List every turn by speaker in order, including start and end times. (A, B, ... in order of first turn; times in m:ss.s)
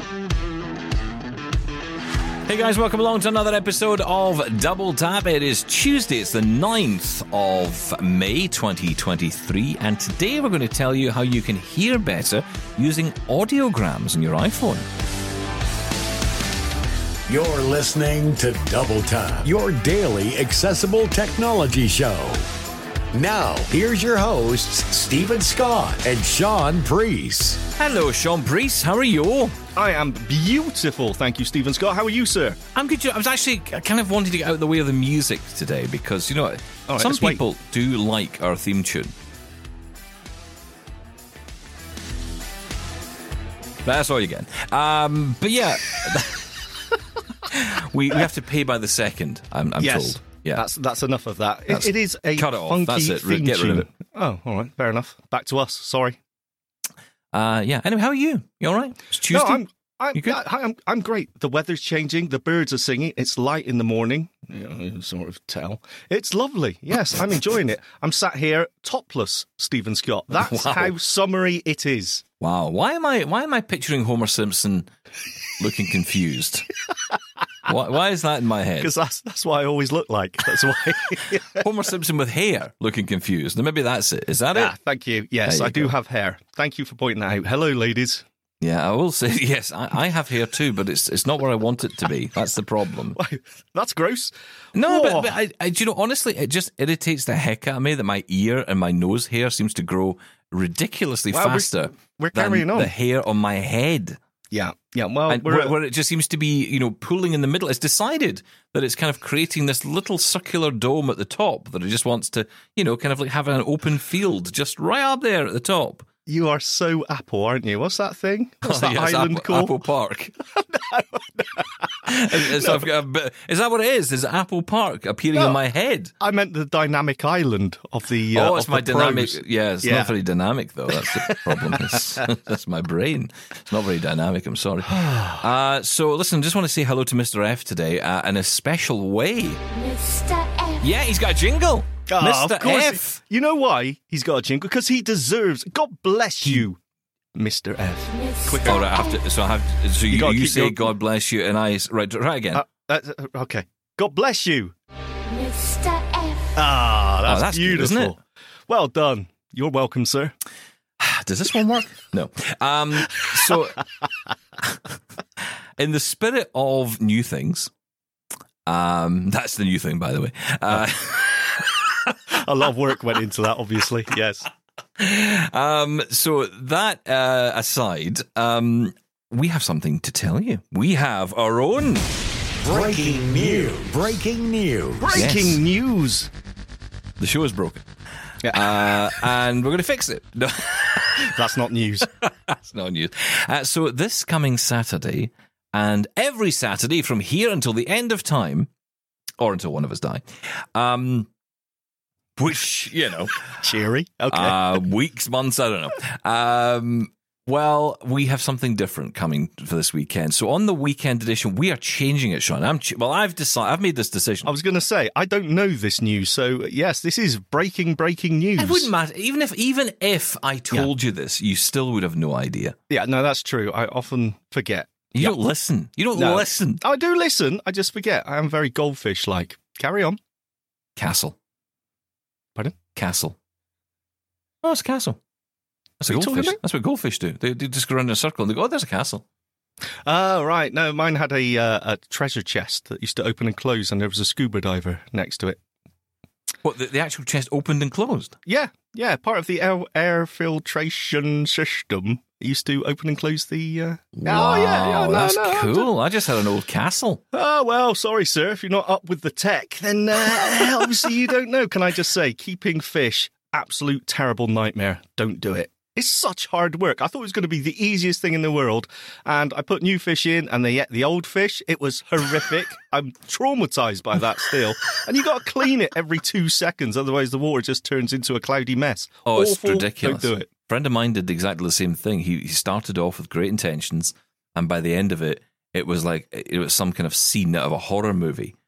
0:02.4-0:14.8 A
0:17.3-0:22.4 B
0:23.1-0:27.6 B
0:27.8-0:29.6 A
0:29.8-0:32.6 C
0:32.7-0:39.1 A
0:36.9-0:37.4 C
0:43.8-0:46.5 A
0:47.5-0:50.6 A
0:49.8-0:56.2 C
0:51.7-0:53.9 A
0:57.3-1:00.4 A
0:59.3-1:12.2 C
1:10.3-1:10.9 A
1:12.4-1:14.9 A
1:15.6-1:16.7 A
1:17.7-1:18.9 A
1:18.8-1:21.6 C
1:21.6-1:24.7 A
1:24.5-1:28.2 C
1:25.4-1:25.9 A
1:28.6-1:33.2 A
1:33.1-1:35.3 C
1:34.7-1:44.2 A
1:41.3-1:42.9 C
1:44.5-1:45.7 C
1:45.3-1:56.0 A
1:56.3-1:59.8 C
1:58.6-2:00.3 A
2:00.6-2:02.8 C
2:02.0-2:06.1 A
2:05.3-2:05.6 C
2:06.2-2:10.1 C
2:08.3-2:19.6 A
2:10.9-2:12.2 C
2:14.9-2:15.4 C
2:19.7-2:20.9 D
2:20.8-2:23.2 A
2:22.1-2:26.8 C
2:27.3-2:28.8 C
2:28.1-2:29.2 D
2:28.6-2:32.6 A
2:30.1-2:30.9 C
2:32.5-2:34.7 C
2:35.3-2:36.5 D
2:36.6-2:40.3 C
2:37.2-2:38.1 A
2:41.0-2:43.8 A
2:45.8-2:47.7 A
2:48.6-2:52.2 A
2:52.3-2:54.5 C
2:55.0-3:02.1 A
3:02.6-3:05.3 B
3:05.0-3:06.3 C
3:05.1-3:05.6 A
3:07.2-3:07.8 A
3:08.4-3:08.9 C
3:08.5-3:11.3 A
3:11.2-3:12.1 C
3:12.2-3:18.7 A
3:19.4-3:20.2 A
3:20.7-3:21.3 A
3:22.4-3:23.6 A
3:23.6-3:24.6 C
3:24.3-3:34.5 A
3:34.4-3:38.9 C
3:38.6-3:42.7 A
3:42.9-3:45.3 C
3:45.2-3:46.8 A
3:46.2-3:50.2 C
3:51.0-3:51.3 A
3:52.9-3:53.4 A
3:54.6-3:55.2 A
3:56.0-3:59.2 A
3:56.1-3:56.6 C
4:00.0-4:05.6 C
4:06.6-4:08.4 A
4:08.4-4:15.9 C
4:14.2-4:17.2 A
4:17.3-4:40.5 C
4:39.2-4:48.5 A